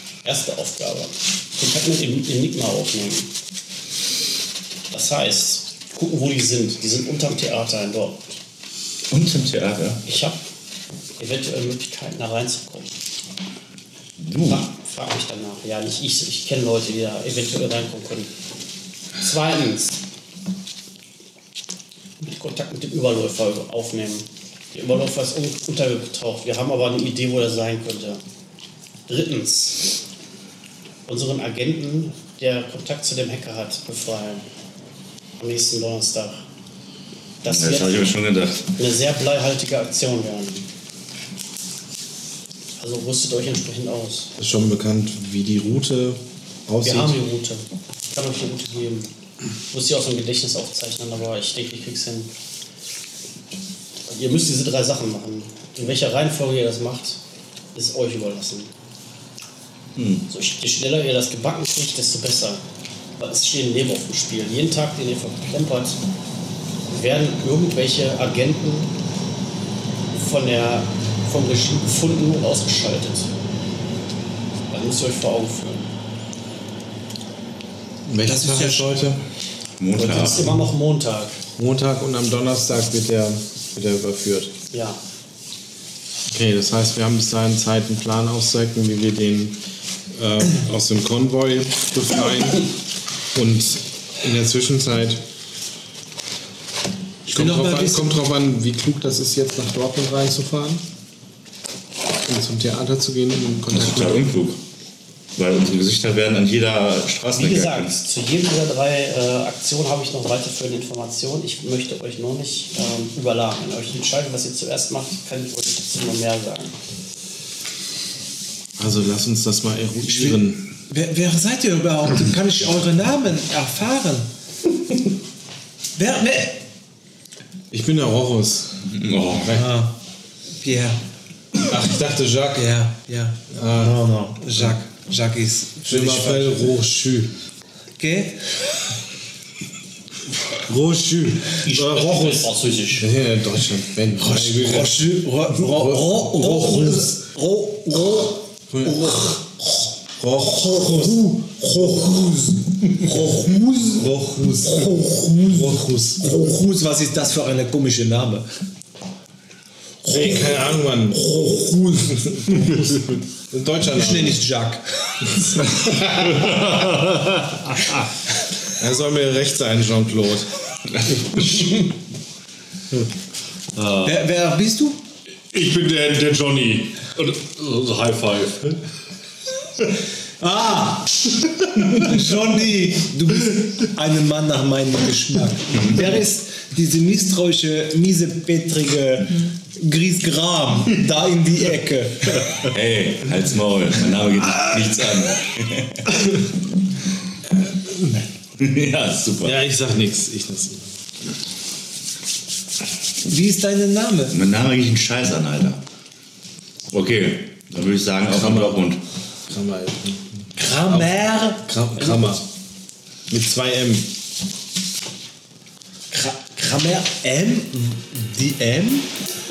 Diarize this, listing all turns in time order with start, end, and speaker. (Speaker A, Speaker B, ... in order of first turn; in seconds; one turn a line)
Speaker A: 0.2-3.3
Speaker A: 4.9-8.4
Speaker B: 9.1-10.0
Speaker A: 10.1-10.4
Speaker A: 11.2-12.9
Speaker B: 14.2-14.7
Speaker A: 14.4-18.3
Speaker A: 19.2-20.0
Speaker A: 22.2-28.2
Speaker A: 29.1-29.9
Speaker A: 31.1-34.4
Speaker A: 35.4-36.4
Speaker A: 37.4-38.2
Speaker B: 37.5-38.7
Speaker A: 38.8-40.6
Speaker A: 42.8-44.3
Speaker C: 44.4-47.2
Speaker A: 46.8-49.1
Speaker A: 49.7-52.3
Speaker A: 54.1-57.2
Speaker A: 57.8-58.7
Speaker B: 60.0-60.3
Speaker A: 60.3-62.6
Speaker A: 63.2-66.0
Speaker A: 66.9-68.9
Speaker A: 70.1-73.3
Speaker A: 74.7-75.9
Speaker C: 78.1-79.2
Speaker D: 78.2-79.0
Speaker B: 79.8-80.5
Speaker A: 80.0-81.4
Speaker C: 81.6-84.5
Speaker A: 84.7-85.0
Speaker C: 86.3-89.6
Speaker C: 90.1-92.8
Speaker C: 93.3-95.2
Speaker D: 97.3-98.1
Speaker C: 97.3-100.8
Speaker C: 102.3-104.3
Speaker B: 103.7-104.6
Speaker B: 105.4-107.9
Speaker A: 107.4-116.7
Speaker C: 118.8-120.7
Speaker D: 120.2-124.3
Speaker D: 126.0-126.6
Speaker C: 127.7-128.8
Speaker B: 128.9-129.6
Speaker D: 129.4-129.9
Speaker D: 130.6-131.0
Speaker C: 131.7-132.6
Speaker D: 132.5-136.7
Speaker C: 133.5-134.7
Speaker C: 135.9-137.3
Speaker D: 138.0-138.6
Speaker C: 140.7-147.1
Speaker A: 141.6-143.1
Speaker D: 144.2-149.9
Speaker C: 148.7-149.3
Speaker C: 150.2-153.5
Speaker D: 150.7-151.2
Speaker D: 152.9-158.5
Speaker C: 155.5-156.3
Speaker D: 160.0-160.6
Speaker C: 160.1-163.0
Speaker D: 161.2-162.8
Speaker C: 163.5-164.4
Speaker D: 163.9-165.6
Speaker C: 165.4-166.4
Speaker E: 166.3-167.9
Speaker C: 168.8-170.5
Speaker E: 173.7-174.2
Speaker D: 174.0-175.0
Speaker E: 175.5-178.8
Speaker D: 180.4-192.7
Speaker B: 192.7-196.3
Speaker B: 198.6-199.6
Speaker C: 199.4-201.0
Speaker D: 203.3-204.4
Speaker B: 204.3-205.8
Speaker B: 206.9-209.0
Speaker C: 208.3-208.9
Speaker C: 209.5-212.4
Speaker D: 210.6-211.7
Speaker C: 213.3-214.1
Speaker D: 216.1-219.1